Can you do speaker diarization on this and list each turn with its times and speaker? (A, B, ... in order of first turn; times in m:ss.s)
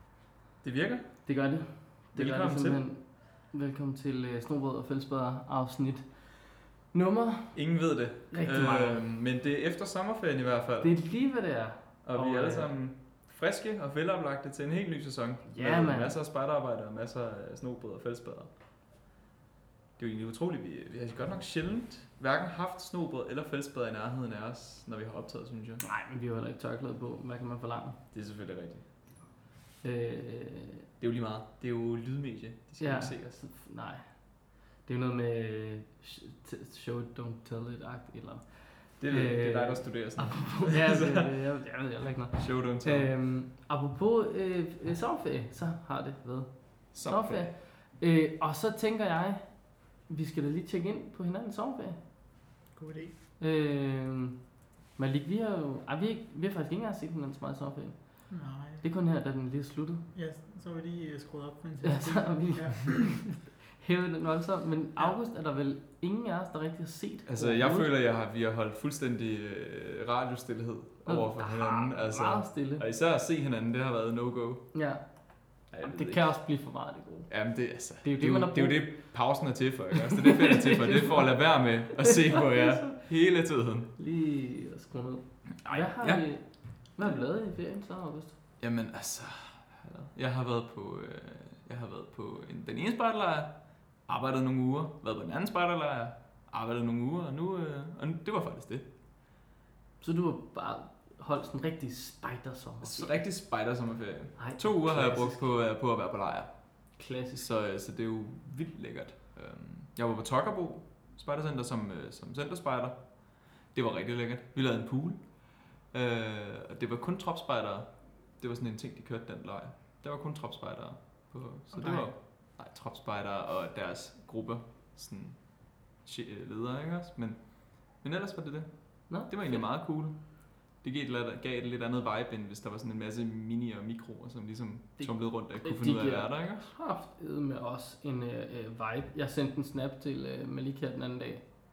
0:00.6-0:01.2 A
0:01.2-0:07.6 B
0:02.1-0:02.8 A
0:07.5-0:10.9 A
0:08.3-0:09.0 B
0:10.8-0:12.7 B
0:12.0-0:18.5 A
0:15.5-0:16.1 B
0:20.0-0:25.8 A
0:25.8-0:28.0 B
0:28.1-0:28.9 A
0:29.8-0:30.8 B
0:31.0-0:33.4 A
0:32.8-0:34.0 B
0:34.8-0:52.0 B
0:39.0-0:41.4 A
0:42.4-0:43.1 A
0:46.9-0:47.5 A
0:52.7-0:53.1 C
0:53.4-0:54.4 B
0:55.0-0:58.3 B
0:58.3-0:58.8 C
0:58.8-1:00.0 B
1:00.1-1:03.3 C
1:01.8-1:07.9 B
1:07.2-1:14.7 A
1:11.0-1:12.8 B
1:14.7-1:15.0 B
1:15.7-1:17.3 B
1:15.7-1:16.3 A
1:17.3-1:23.9 A
1:18.0-1:19.0 B
1:20.1-1:21.3 B
1:22.0-1:23.0 B
1:24.0-1:28.3 B
1:25.6-1:26.2 A
1:28.6-1:38.8 A
1:40.0-1:43.3 B
1:42.8-2:16.7 A
1:44.4-1:45.4 B
1:47.0-1:47.4 B
2:01.8-2:02.1 C
2:09.1-2:09.6 B
2:15.0-2:21.4 B